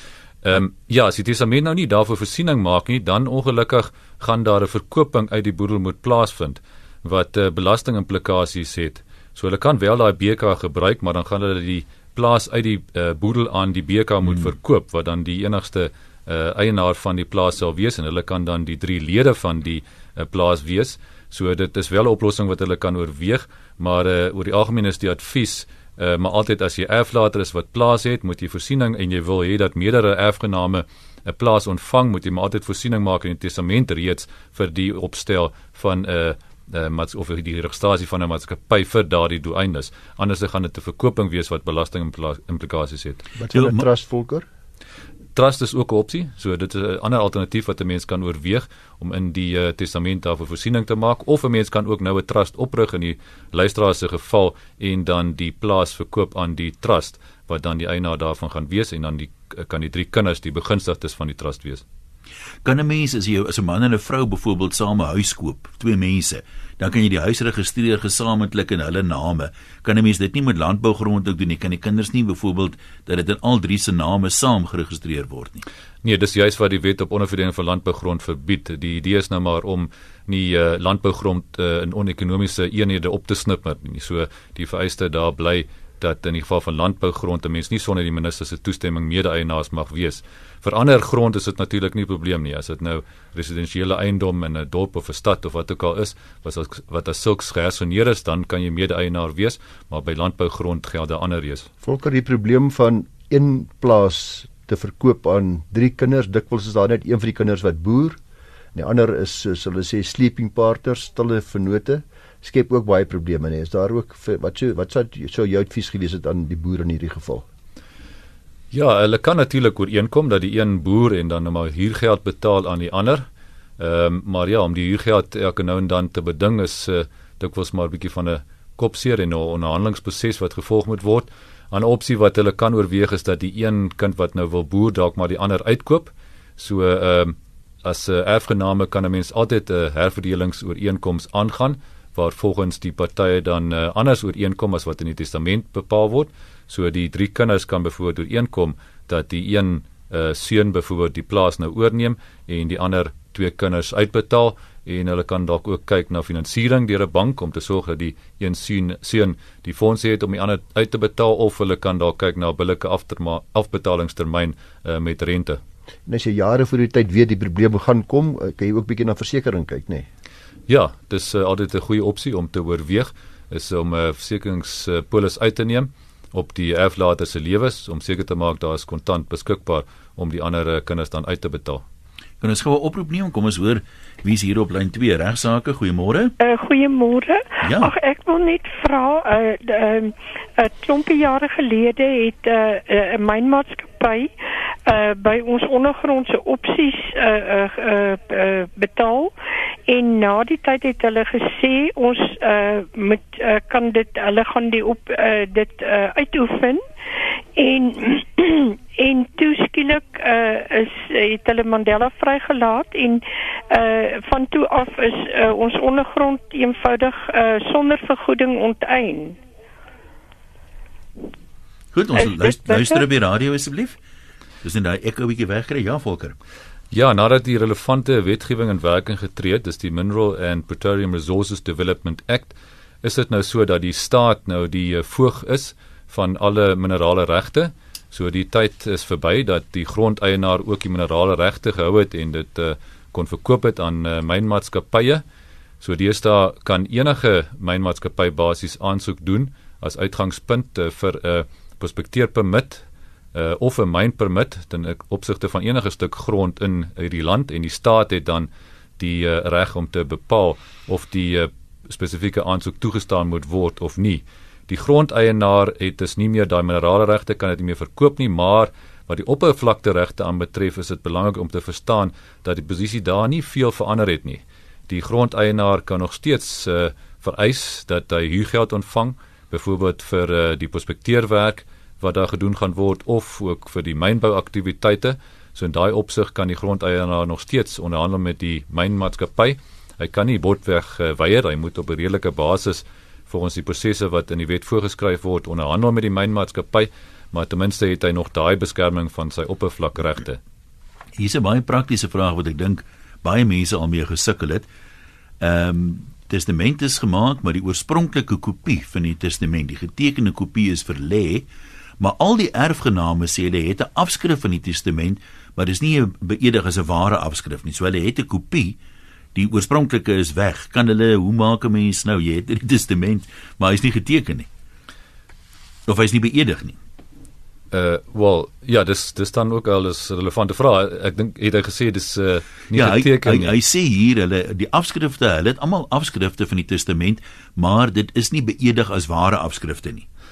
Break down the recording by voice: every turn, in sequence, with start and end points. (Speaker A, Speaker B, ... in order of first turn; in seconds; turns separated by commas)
Speaker A: 0.4-43.2, Speaker B: 43.4-44.5, Speaker C: 43.5-43.8, Speaker A: 45.4-61.8, Speaker C: 62.6-75.6, Speaker A: 76.0-101.7, Speaker B: 101.8-108.2, Speaker B: 108.7-117.4, Speaker A: 118.7-123.2, Speaker A: 123.8-165.6, Speaker B: 166.1-170.1, Speaker A: 170.7-181.8, Speaker C: 182.4-186.3, Speaker D: 186.4-194.3, Speaker C: 187.6-187.9, Speaker D: 194.8-199.3, Speaker D: 199.9-206.8, Speaker D: 207.6-219.4, Speaker C: 221.9-224.0, Speaker D: 222.2-223.0, Speaker C: 224.6-226.3, Speaker A: 226.9-245.2, Speaker A: 245.8-300.4, Speaker C: 301.2-304.6, Speaker C: 305.4-311.4, Speaker C: 312.0-318.8, Speaker C: 319.3-324.5, Speaker C: 325.9-326.8, Speaker A: 327.7-333.5, Speaker C: 332.7-340.1